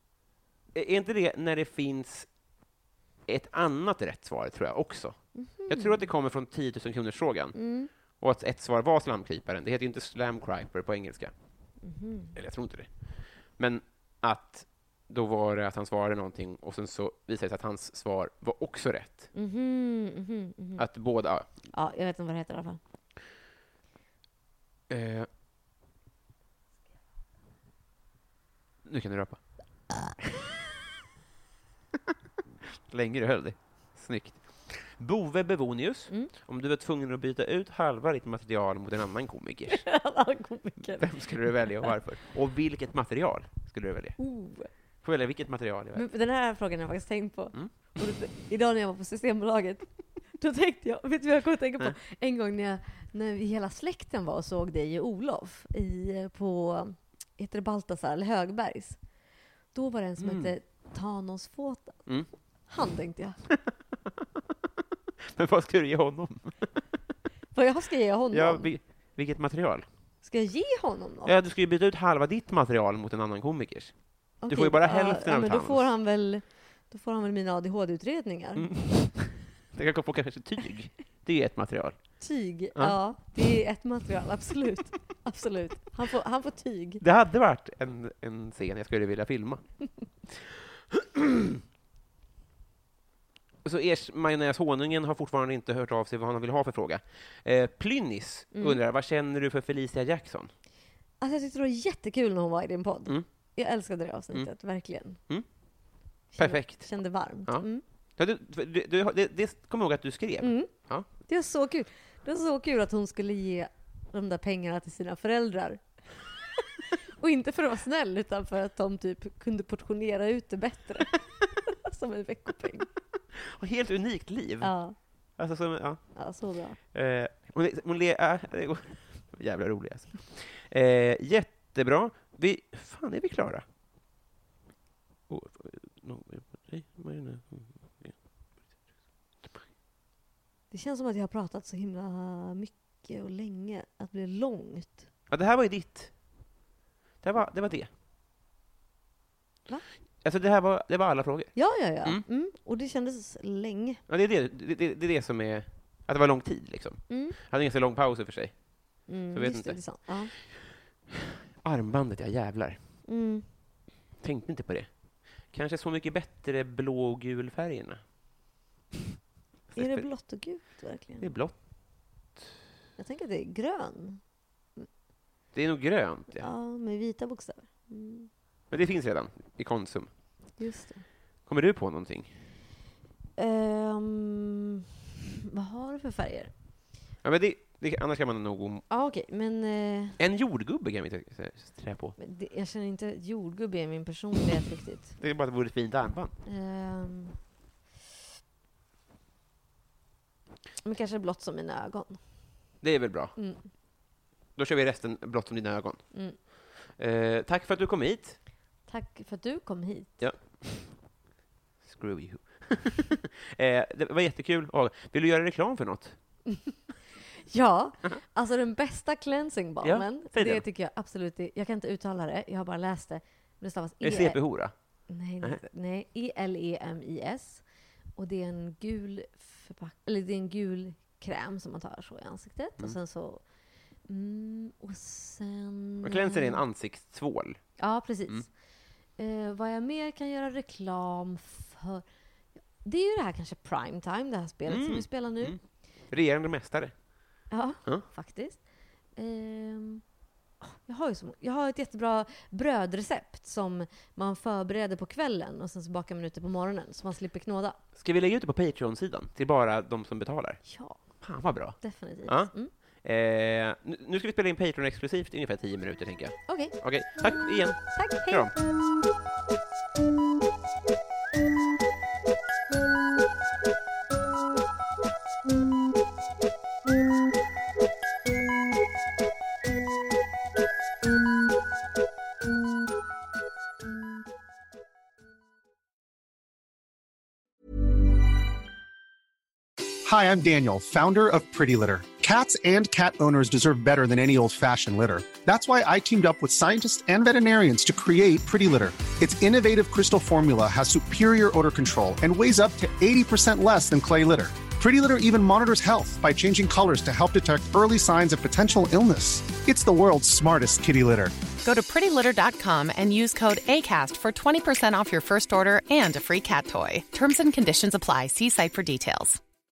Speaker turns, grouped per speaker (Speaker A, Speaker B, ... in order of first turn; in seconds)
Speaker A: 0.7-2.3, 3.2-7.5, 8.2-11.3, 12.3-19.3, 20.8-21.5, 24.9-25.3, 28.8-29.4, 32.6-39.9, 40.8-44.2, 45.0-46.0, 60.2-60.5, 65.2-66.8, 68.3-69.8, 71.2-75.8, 78.6-82.0, 87.0-89.6, 90.3-91.6, 93.6-100.5, 106.4-107.7, 108.2-111.1, 123.3-124.7, 125.4-126.1, 126.9-133.6, 135.3-138.2, 145.3-146.1, 147.2-147.9, 150.2-152.2, 154.1-160.4, 161.1-162.8, 164.2-164.9, 165.4-168.0, 169.7-170.1, 171.2-171.6, 175.5-176.5, 178.7-180.1, 181.5-182.4, 187.2-188.8, 190.2-192.2, 195.2-196.3, 202.8-203.3, 204.6-206.1, 206.8-208.4, 210.2-211.0, 211.8-216.2, 219.8-220.6, 224.0-224.7, 236.0-237.6, 244.7-246.9, 257.9-268.5
Speaker B: 5.3-6.1, 7.5-7.9, 11.8-12.3, 19.3-20.8, 21.7-22.8, 39.7-41.9, 44.2-44.7, 45.9-59.0, 59.7-62.0, 62.7-63.4, 67.5-68.8, 70.2-71.3, 74.4-78.7, 82.2-87.0, 98.5-98.8, 101.2-105.2, 106.3-107.8, 110.4-115.8, 116.5-122.9, 124.6-125.0, 126.2-126.8, 140.7-145.1, 151.5-154.0, 157.1-157.3, 159.1-160.3, 163.1-163.4, 169.7-171.3, 173.0-174.2, 176.3-178.3, 180.6-181.0, 183.4-184.8, 185.5-186.5, 188.9-190.2, 192.2-195.2, 196.4-197.4, 200.8-202.2, 203.3-203.6, 206.1-206.4, 208.9-210.2, 216.4-224.4, 225.1-227.6, 228.2-233.4, 234.1-236.6, 237.8-238.5, 239.2-242.0, 242.8-245.6, 247.5-248.6, 249.1-250.0, 250.6-257.8, 260.6-261.0, 261.8-262.7, 266.5-266.8, 267.9-268.5
Speaker C: 290.0-311.3
Speaker D: 311.6-319.4